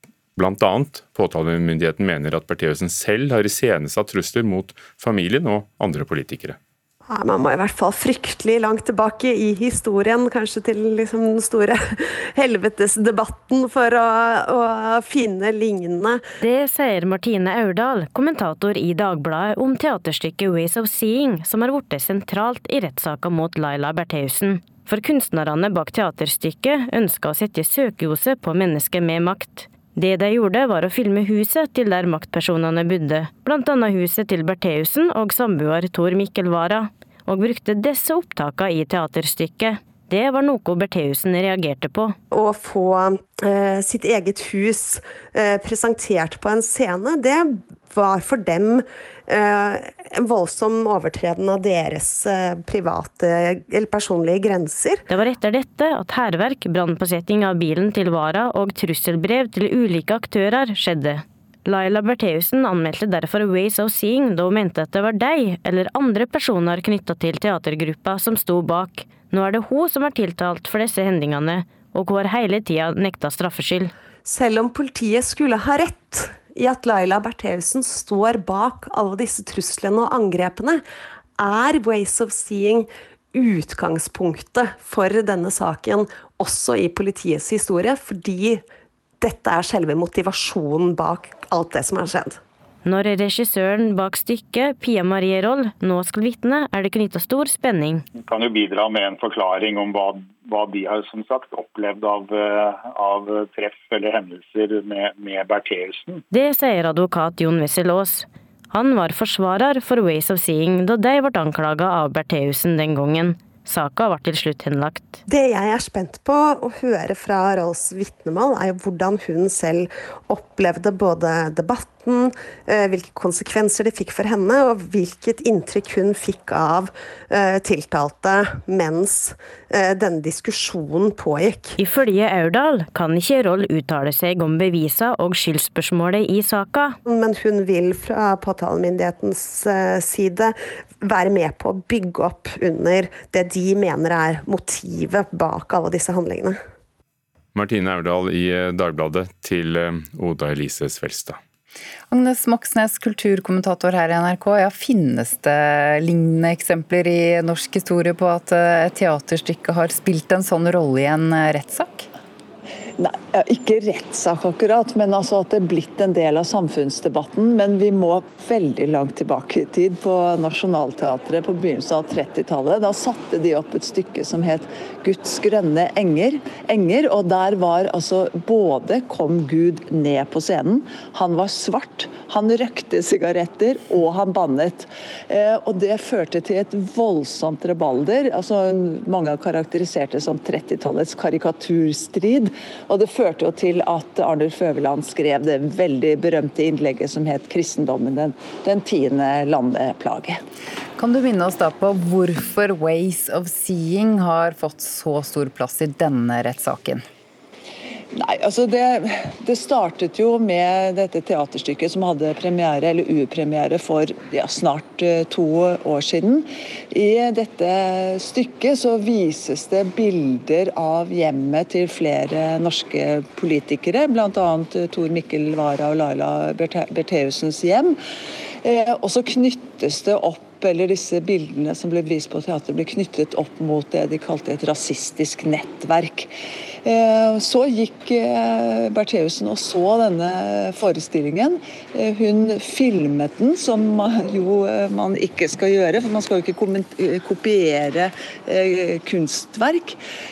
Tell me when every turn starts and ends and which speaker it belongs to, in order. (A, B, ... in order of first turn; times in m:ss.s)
0:00.4-0:06.6 A
0:07.1-0:16.2 B
0:16.4-0:42.2 C
0:42.3-0:55.0 B
0:55.1-1:13.9 C
1:14.2-1:20.8 B
1:21.4-1:28.6 B
1:29.2-1:32.4 B
1:32.8-1:38.0 C
1:38.3-1:46.2 D
1:46.3-1:55.2 C
1:55.3-2:11.8 B
2:11.8-2:17.0 C
2:17.1-2:26.6 B
2:27.5-2:31.4 A
2:32.1-2:42.1 E
2:43.0-3:20.4 F
3:21.0-3:27.0 E
3:28.1-3:48.0 F
3:48.6-4:10.0 F